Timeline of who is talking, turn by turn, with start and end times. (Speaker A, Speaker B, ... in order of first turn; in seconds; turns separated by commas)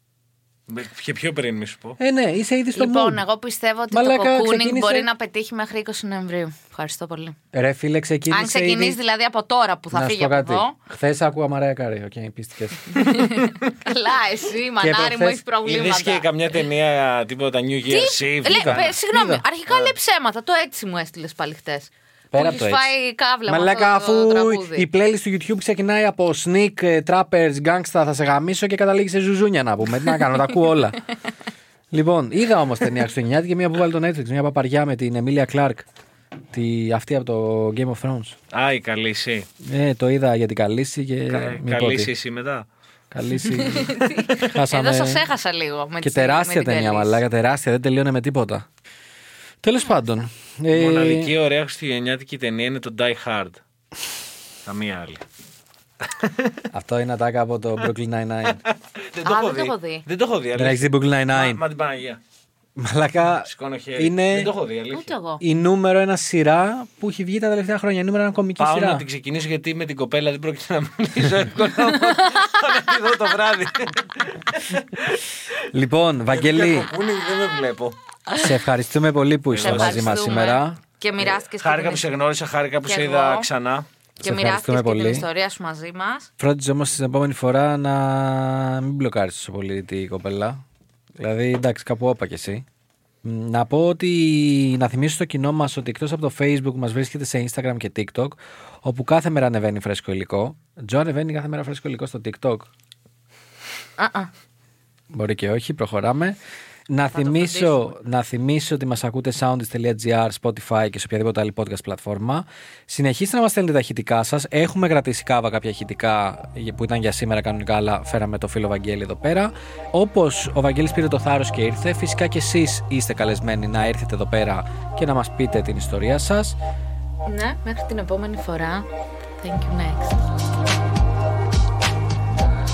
Speaker A: 0.7-2.0, Speaker B: 2.0-3.2, Speaker C: 2.7-7.3, Speaker B: 3.9-5.1, Speaker B: 7.5-9.0, Speaker C: 8.3-10.7, Speaker B: 9.9-13.2, Speaker C: 12.9-16.3, Speaker B: 14.8-15.4, Speaker A: 15.6-18.9, Speaker C: 17.9-24.9, Speaker B: 18.5-19.4, Speaker B: 22.3-31.0, Speaker B: 31.9-35.9, Speaker B: 36.5-38.4, Speaker A: 38.5-39.5, Speaker B: 39.6-42.1, Speaker A: 41.3-42.7, Speaker B: 43.1-45.3, Speaker C: 43.4-47.2, Speaker B: 46.0-48.6, Speaker B: 49.6-51.3, Speaker A: 50.7-53.6, Speaker A: 54.6-55.2, Speaker A: 56.0-56.6, Speaker B: 56.7-58.6, Speaker A: 59.1-62.2, Speaker C: 59.2-60.0, Speaker B: 60.5-61.6, Speaker B: 62.8-64.5, Speaker A: 63.5-65.1, Speaker C: 64.9-65.4, Speaker B: 65.4-69.0, Speaker A: 68.6-75.2, Speaker B: 75.7-76.9, Speaker A: 76.3-78.0, Speaker B: 78.3-80.8, Speaker A: 79.5-80.5, Speaker C: 79.6-82.0, Speaker A: 81.2-83.8, Speaker C: 82.8-83.5, Speaker B: 84.2-85.3, Speaker C: 84.2-86.3, Speaker B: 86.4-90.6, Speaker B: 91.2-92.6, Speaker B: 93.2-102.7, Speaker C: 104.0-104.3, Speaker B: 105.1-106.4, Speaker B: 106.9-126.6, Speaker C: 107.1-107.9, Speaker C: 127.2-128.9, Speaker C: 129.4-130.2